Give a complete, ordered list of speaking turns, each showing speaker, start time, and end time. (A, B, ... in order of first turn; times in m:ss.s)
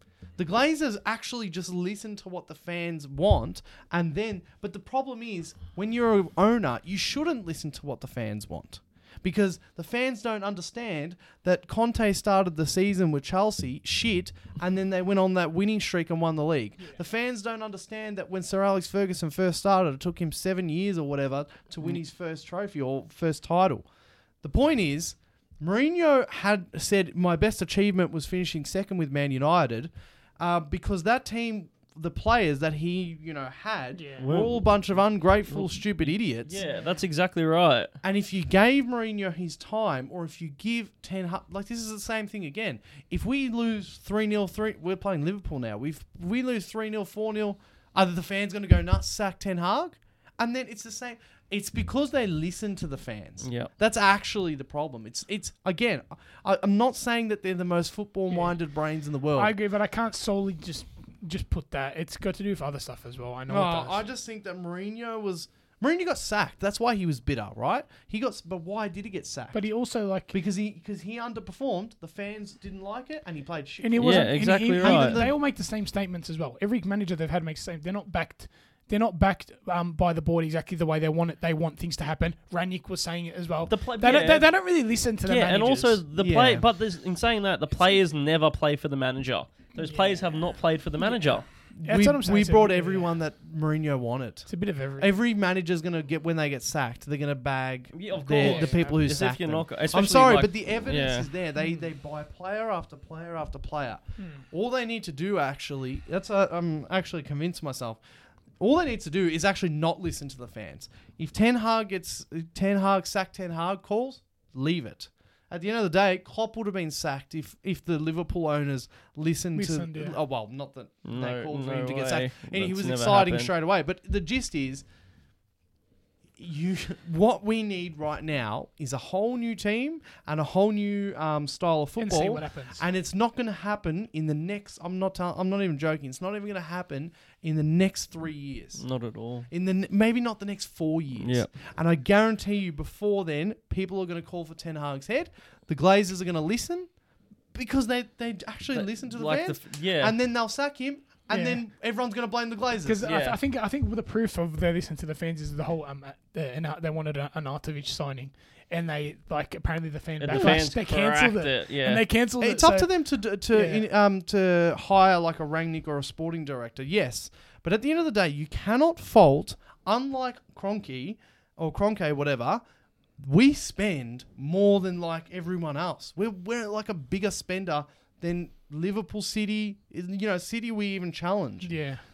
0:00.4-0:23.8 A
0:24.4-0:36.6 A
0:33.9-0:34.3 B
0:34.2-0:34.6 C
0:35.5-0:37.9 C
0:36.6-0:37.0 B
0:38.0-0:59.5 A
0:53.4-0:53.7 C
0:58.3-0:58.6 B
0:59.4-1:04.0 B
1:03.5-1:09.7 A
1:09.5-1:10.3 B
1:10.3-1:15.4 A
1:13.8-1:26.0 B
1:14.0-1:15.2 C
1:23.7-1:24.5 C
1:25.2-1:31.4 C
1:26.2-1:26.6 A
1:29.8-1:30.2 B
1:31.0-1:33.1 B
1:31.8-1:48.0 A
1:34.5-1:35.1 B
1:37.9-1:41.3 C
1:38.4-1:39.0 B
1:48.6-2:04.8 A
1:59.5-2:00.2 B
2:01.0-2:03.5 C
2:06.4-2:18.8 A
2:12.0-2:12.8 B
2:18.8-2:19.5 C
2:19.5-2:26.9 A
2:21.2-2:21.5 C
2:27.5-2:33.1 A
2:28.7-2:30.1 C
2:31.3-2:31.6 B
2:32.8-2:42.9 B
2:33.0-2:33.4 C
2:40.2-2:42.0 C
2:40.3-2:40.6 A
2:42.4-2:52.6 A
2:43.5-2:43.8 B
2:53.2-3:01.7 A
3:01.6-3:02.0 B